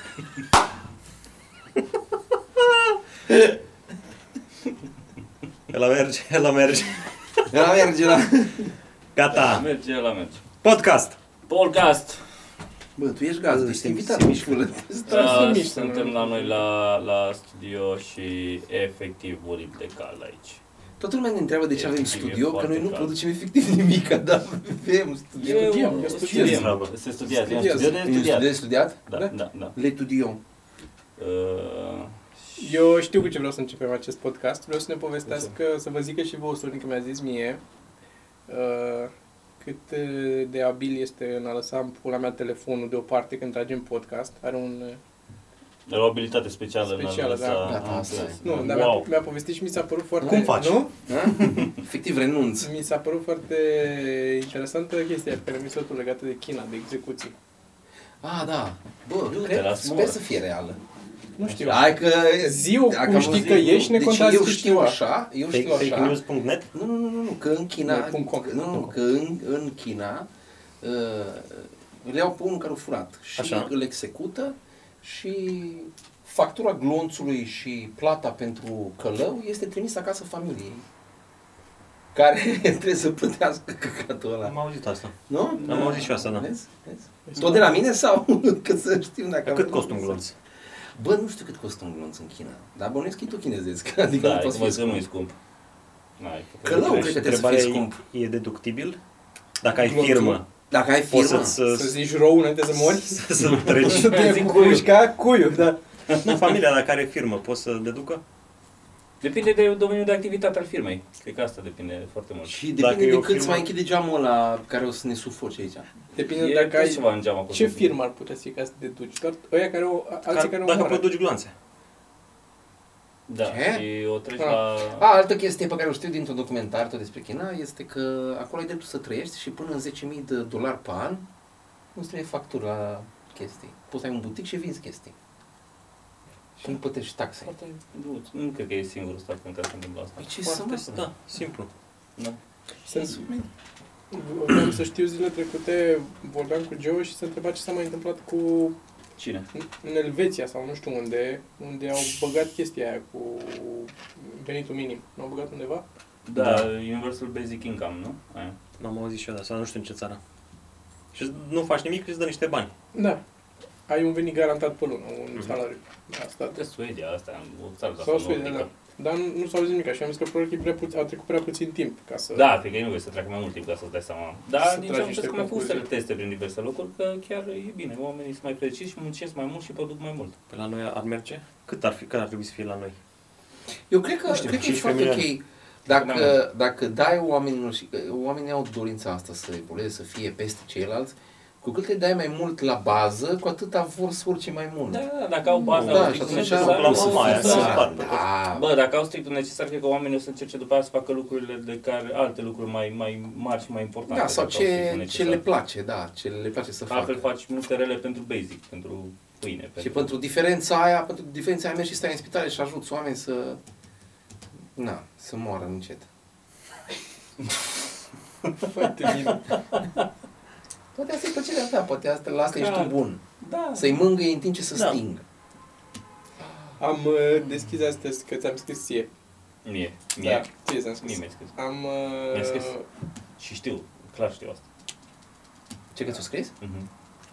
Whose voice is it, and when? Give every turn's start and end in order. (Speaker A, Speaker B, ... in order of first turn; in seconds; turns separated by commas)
Speaker A: 5.7-7.5, Speaker B: 7.5-8.7, Speaker A: 9.2-9.7, Speaker C: 9.3-10.4, Speaker A: 10.6-11.2, Speaker C: 11.5-12.2, Speaker B: 13.0-15.7, Speaker A: 13.5-14.5, Speaker D: 15.1-16.6, Speaker C: 15.1-20.6, Speaker B: 21.0-26.6, Speaker C: 21.7-23.1, Speaker C: 25.4-28.6, Speaker D: 25.7-26.7, Speaker A: 26.3-26.9, Speaker D: 27.3-28.0, Speaker B: 27.8-29.0, Speaker C: 29.1-29.8, Speaker B: 29.8-30.4, Speaker C: 31.2-32.1, Speaker D: 32.6-37.6, Speaker D: 38.5-45.0, Speaker C: 45.9-48.4, Speaker D: 46.9-50.9, Speaker B: 47.6-48.4, Speaker A: 47.8-49.1, Speaker B: 50.2-50.5, Speaker A: 50.2-50.8, Speaker B: 51.1-52.7, Speaker D: 52.6-57.3, Speaker B: 58.2-60.8, Speaker C: 59.4-60.2, Speaker D: 61.4-65.0, Speaker C: 61.5-61.8, Speaker B: 61.6-66.2, Speaker C: 63.1-63.6, Speaker A: 65.5-66.7, Speaker B: 66.7-70.3, Speaker D: 67.8-68.9, Speaker B: 70.8-80.8, Speaker A: 73.4-73.7, Speaker B: 82.1-84.5, Speaker A: 84.4-85.1, Speaker B: 85.3-90.2, Speaker C: 85.5-86.1, Speaker A: 85.7-86.5, Speaker D: 87.3-87.8, Speaker A: 89.4-90.3, Speaker B: 90.9-95.0, Speaker C: 94.1-95.4, Speaker C: 96.2-97.2, Speaker B: 96.6-98.0, Speaker A: 96.7-99.0, Speaker A: 99.6-100.5, Speaker D: 99.7-100.4, Speaker B: 100.7-101.6, Speaker A: 101.1-102.0, Speaker D: 101.7-105.8, Speaker A: 102.8-104.2, Speaker C: 103.9-104.9, Speaker A: 106.2-108.2, Speaker C: 109.2-112.6, Speaker B: 112.5-115.9, Speaker A: 112.8-113.7, Speaker D: 116.1-121.1, Speaker C: 116.3-117.9, Speaker A: 120.3-121.5, Speaker C: 123.3-125.1, Speaker B: 123.4-123.8, Speaker B: 124.9-131.2, Speaker B: 131.9-135.1, Speaker B: 136.6-137.5, Speaker C: 137.5-140.3, Speaker B: 140.2-141.1, Speaker A: 140.4-141.7, Speaker D: 142.9-143.3, Speaker B: 142.9-143.5, Speaker D: 144.1-148.8, Speaker C: 149.2-149.5, Speaker D: 149.6-155.8, Speaker C: 156.3-158.6, Speaker A: 156.4-156.7, Speaker A: 158.8-160.2, Speaker A: 161.1-162.7, Speaker D: 162.9-163.2, Speaker D: 163.9-166.6, Speaker C: 166.5-168.7, Speaker D: 168.0-172.4, Speaker C: 172.3-180.3, Speaker D: 174.6-175.8, Speaker A: 180.5-183.0, Speaker B: 183.9-195.0, Speaker A: 184.3-185.3, Speaker C: 185.9-186.4, Speaker C: 194.9-197.9, Speaker A: 195.6-198.2, Speaker B: 195.8-198.7, Speaker C: 198.5-205.4, Speaker B: 204.1-207.3, Speaker C: 206.9-210.1, Speaker B: 209.8-213.6, Speaker B: 214.8-216.1, Speaker D: 218.6-219.5, Speaker B: 220.9-223.2, Speaker C: 222.5-223.9, Speaker B: 223.8-225.2, Speaker D: 226.8-229.1, Speaker C: 229.7-230.5, Speaker D: 230.2-232.8, Speaker C: 231.0-231.5, Speaker C: 232.3-232.7, Speaker C: 233.4-234.6, Speaker B: 235.9-236.5, Speaker C: 236.6-236.9